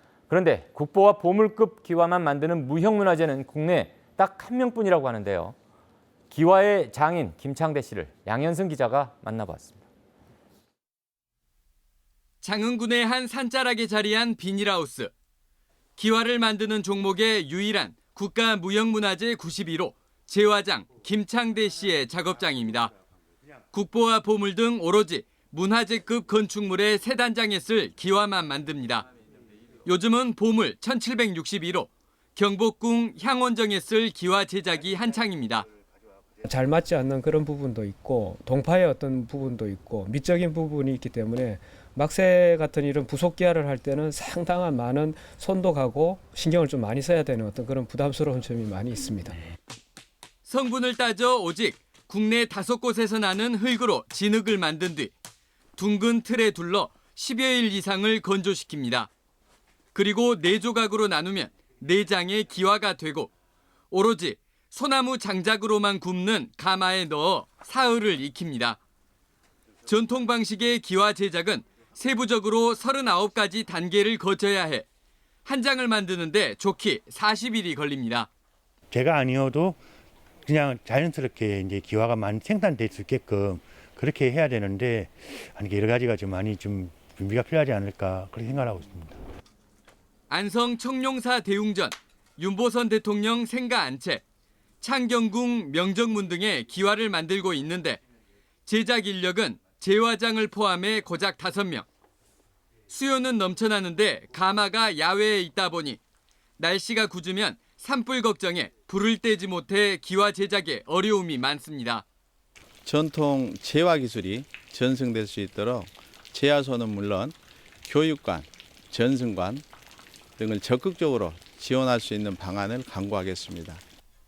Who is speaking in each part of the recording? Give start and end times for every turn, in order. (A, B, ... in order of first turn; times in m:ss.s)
0:00.3-0:05.5 A
0:06.3-0:09.8 A
0:12.4-0:15.1 B
0:16.0-0:22.9 B
0:23.7-0:29.0 B
0:29.8-0:35.7 B
0:36.4-0:49.4 C
0:50.4-0:55.1 B
0:55.8-0:59.1 B
0:59.9-1:03.3 B
1:03.9-1:08.8 B
1:09.8-1:14.8 B
1:15.4-1:18.3 B
1:18.9-1:19.8 D
1:20.4-1:29.2 D
1:30.3-1:34.2 B
1:34.8-1:38.0 B
1:38.6-1:41.8 B
1:42.9-1:46.0 B
1:46.6-1:52.0 B
1:52.8-1:59.6 E
2:00.4-2:03.8 E